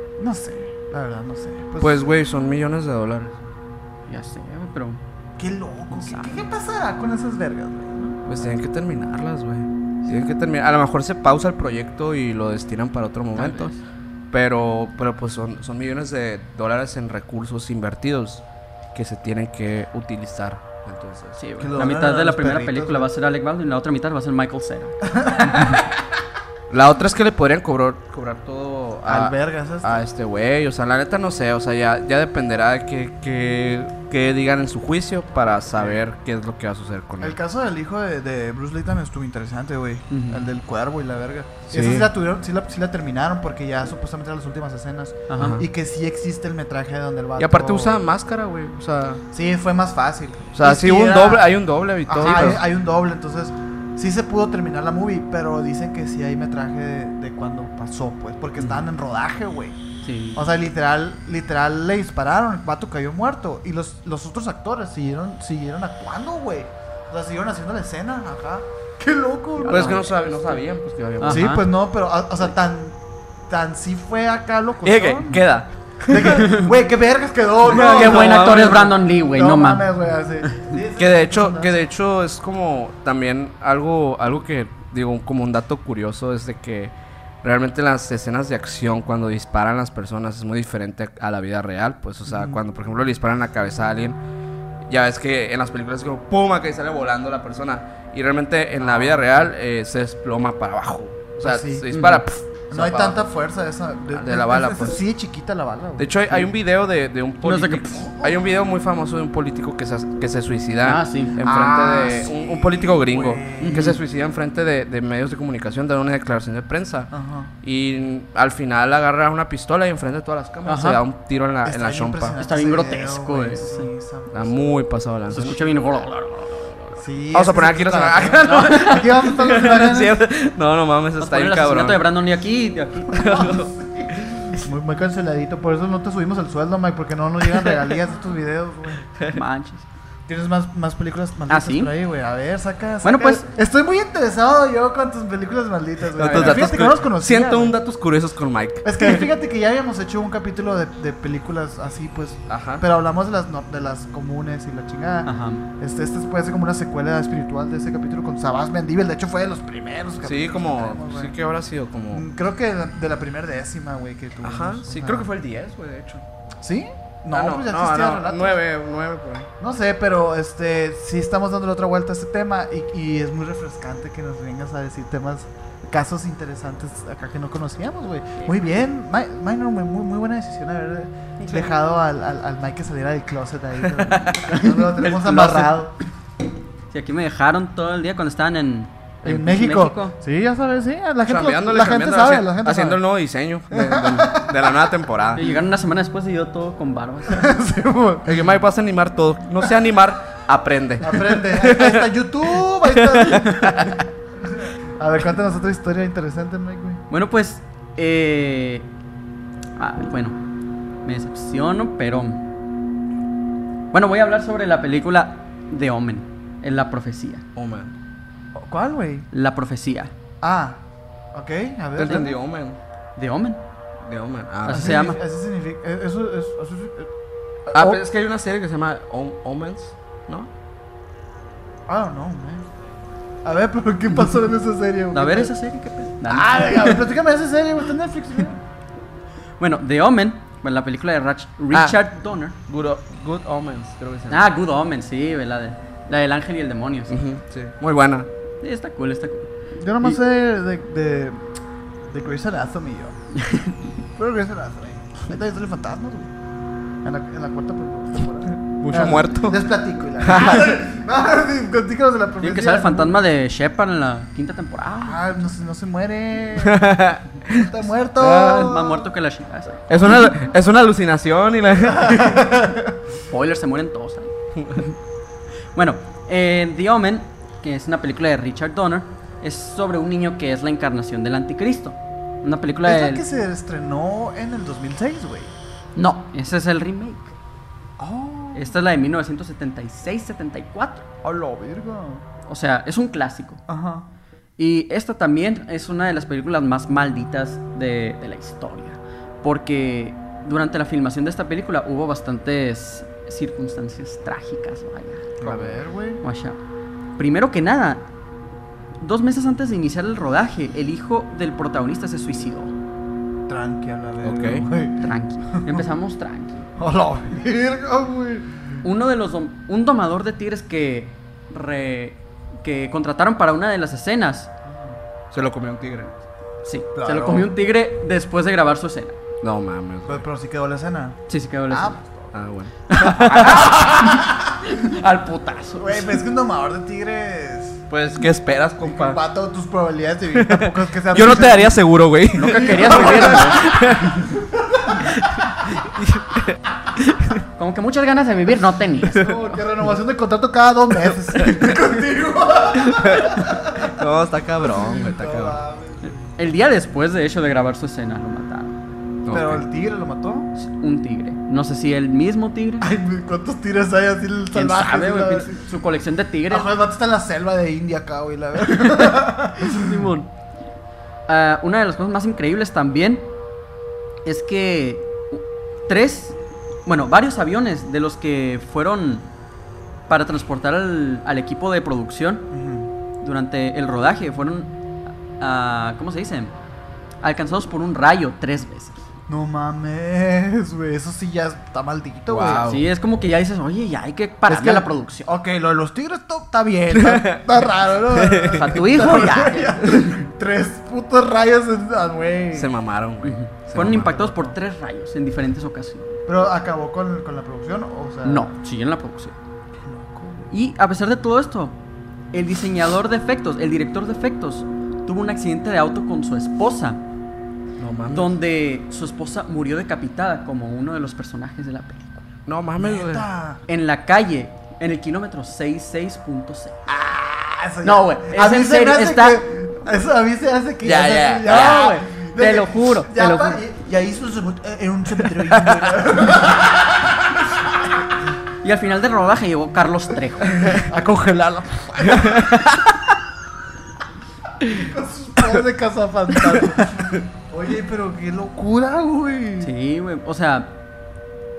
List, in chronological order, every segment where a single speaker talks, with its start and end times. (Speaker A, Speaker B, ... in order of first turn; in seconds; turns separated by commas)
Speaker A: 0.2-2.1, Speaker B: 1.8-3.4, Speaker C: 4.1-5.0, Speaker A: 5.4-8.6, Speaker C: 5.9-6.5, Speaker B: 8.3-13.7, Speaker C: 13.3-13.8, Speaker B: 14.3-18.4, Speaker B: 18.9-21.4, Speaker C: 21.4-25.0, Speaker A: 21.6-23.1, Speaker A: 25.1-25.8, Speaker B: 26.7-37.4, Speaker A: 29.1-30.0, Speaker A: 35.7-36.0, Speaker A: 37.2-48.0, Speaker C: 40.1-40.4, Speaker B: 41.7-42.1, Speaker C: 45.3-45.6, Speaker B: 45.4-45.6, Speaker B: 47.4-49.2, Speaker A: 49.3-51.5, Speaker B: 50.5-52.6, Speaker A: 52.1-59.8, Speaker C: 52.2-52.6, Speaker C: 58.6-58.9, Speaker C: 60.0-60.4, Speaker A: 60.4-70.1, Speaker C: 69.6-70.6, Speaker B: 69.7-71.6, Speaker C: 71.2-71.7, Speaker A: 71.2-75.4, Speaker B: 74.8-76.6, Speaker A: 76.1-81.8, Speaker C: 76.2-76.7, Speaker B: 77.7-78.9, Speaker C: 77.7-79.9, Speaker B: 81.0-94.2, Speaker A: 92.3-92.6, Speaker B: 94.9-103.3, Speaker A: 98.8-99.5, Speaker A: 101.4-101.9, Speaker C: 101.9-102.2, Speaker A: 102.7-106.5, Speaker B: 104.1-105.0, Speaker B: 106.0-117.1, Speaker C: 107.4-108.1, Speaker C: 110.8-111.4, Speaker A: 111.4-114.0, Speaker C: 113.6-114.0, Speaker A: 117.1-117.5, Speaker B: 117.6-122.4, Speaker C: 120.7-121.0, Speaker A: 121.6-124.6, Speaker C: 122.4-123.9, Speaker B: 124.3-125.6, Speaker C: 125.3-127.0, Speaker A: 125.4-125.8, Speaker A: 127.0-130.2, Speaker B: 127.3-132.0, Speaker C: 128.4-129.1, Speaker C: 131.2-133.5, Speaker B: 133.1-133.8, Speaker A: 133.1-139.0, Speaker C: 139.3-139.9, Speaker A: 140.3-147.8, Speaker C: 141.5-141.9, Speaker C: 143.0-143.5, Speaker B: 146.2-149.2, Speaker C: 146.2-146.7, Speaker A: 148.8-161.3, Speaker B: 152.5-152.8, Speaker C: 155.2-155.6, Speaker B: 160.2-162.3, Speaker A: 162.1-165.3, Speaker B: 164.4-166.2, Speaker A: 166.6-168.6, Speaker B: 167.3-169.5, Speaker A: 169.6-185.9, Speaker B: 183.9-184.5, Speaker C: 184.5-185.8, Speaker C: 186.9-190.1, Speaker A: 189.2-193.0, Speaker B: 191.3-195.5, Speaker A: 193.7-194.9, Speaker C: 195.3-197.5, Speaker A: 197.3-198.5, Speaker B: 198.3-202.1, Speaker A: 201.0-207.0, Speaker B: 202.8-204.0, Speaker C: 207.1-208.9, Speaker C: 209.8-210.4, Speaker C: 211.0-212.4, Speaker C: 213.9-217.4, Speaker B: 217.6-217.9, Speaker A: 218.6-219.3, Speaker C: 219.3-220.1, Speaker A: 220.4-222.4, Speaker B: 222.0-222.8, Speaker C: 223.2-223.6, Speaker B: 224.0-225.0, Speaker C: 224.7-225.2, Speaker A: 224.7-227.1, Speaker A: 227.7-228.0, Speaker B: 227.7-230.5, Speaker A: 231.9-232.6, Speaker A: 233.4-235.5, Speaker C: 235.1-237.1, Speaker A: 236.3-238.6, Speaker C: 239.6-242.6, Speaker B: 241.7-242.0, Speaker B: 242.7-244.5, Speaker C: 244.3-247.2, Speaker B: 247.1-248.3, Speaker C: 248.6-249.5, Speaker A: 249.8-253.2, Speaker C: 253.3-253.8, Speaker A: 254.1-256.3, Speaker A: 257.0-263.2, Speaker B: 258.8-259.6, Speaker B: 260.2-260.7, Speaker C: 262.4-265.5, Speaker A: 265.0-269.1, Speaker B: 266.6-268.8, Speaker C: 268.4-270.3, Speaker B: 269.9-272.5, Speaker A: 271.9-272.9, Speaker C: 273.3-274.9, Speaker C: 275.7-283.2, Speaker A: 282.8-285.5, Speaker C: 285.9-287.3, Speaker A: 288.0-288.7, Speaker C: 288.5-291.1, Speaker A: 291.2-292.2, Speaker C: 292.4-293.6, Speaker A: 293.7-294.1, Speaker C: 294.6-305.3, Speaker A: 305.4-306.2, Speaker B: 305.4-305.8, Speaker C: 306.2-306.6, Speaker C: 307.2-308.1, Speaker C: 309.0-312.7, Speaker A: 313.5-315.8, Speaker B: 314.2-314.7, Speaker C: 315.0-316.6, Speaker A: 316.8-318.6, Speaker C: 318.8-324.5, Speaker A: 324.7-324.9, Speaker B: 325.3-326.1, Speaker C: 326.6-329.2, Speaker A: 326.9-327.5, Speaker B: 329.4-330.2, Speaker A: 330.1-332.3, Speaker C: 331.3-332.0, Speaker B: 332.3-333.8, Speaker C: 332.9-336.2, Speaker A: 333.1-334.9, Speaker A: 335.8-337.8, Speaker B: 337.9-339.2, Speaker A: 338.8-341.8, Speaker B: 340.3-344.3, Speaker C: 342.4-343.7, Speaker A: 342.4-345.1, Speaker B: 345.0-347.4, Speaker C: 347.5-349.5, Speaker A: 349.1-354.0, Speaker B: 351.3-351.7, Speaker B: 352.8-355.6, Speaker A: 354.6-356.2, Speaker C: 356.1-358.8, Speaker B: 359.2-359.6, Speaker A: 359.3-360.5, Speaker C: 360.6-362.9, Speaker A: 362.8-365.6, Speaker C: 364.5-366.7, Speaker A: 366.5-370.1, Speaker C: 368.7-370.3, Speaker C: 371.3-373.3, Speaker C: 374.2-379.3, Speaker C: 380.1-382.5, Speaker A: 382.5-382.9, Speaker C: 383.2-384.7, Speaker C: 385.4-386.5, Speaker C: 387.2-389.1, Speaker A: 389.3-392.7, Speaker B: 392.3-392.9, Speaker C: 392.5-395.3, Speaker A: 394.5-402.7, Speaker B: 396.9-398.8, Speaker C: 398.5-400.2, Speaker B: 402.5-404.2, Speaker C: 403.2-406.2, Speaker A: 403.8-404.6, Speaker A: 406.2-408.5, Speaker C: 408.2-409.3, Speaker A: 409.9-410.5, Speaker C: 410.5-411.8, Speaker C: 412.3-417.0, Speaker B: 417.8-418.3, Speaker C: 418.1-422.2, Speaker B: 422.5-423.3, Speaker A: 422.8-423.6, Speaker C: 423.7-426.8, Speaker A: 426.9-437.9, Speaker C: 427.8-429.5, Speaker B: 430.8-431.9, Speaker C: 431.4-433.6, Speaker B: 435.4-436.0, Speaker C: 438.6-440.8, Speaker A: 440.5-442.7, Speaker B: 442.1-442.8, Speaker A: 444.6-449.7, Speaker C: 449.6-450.8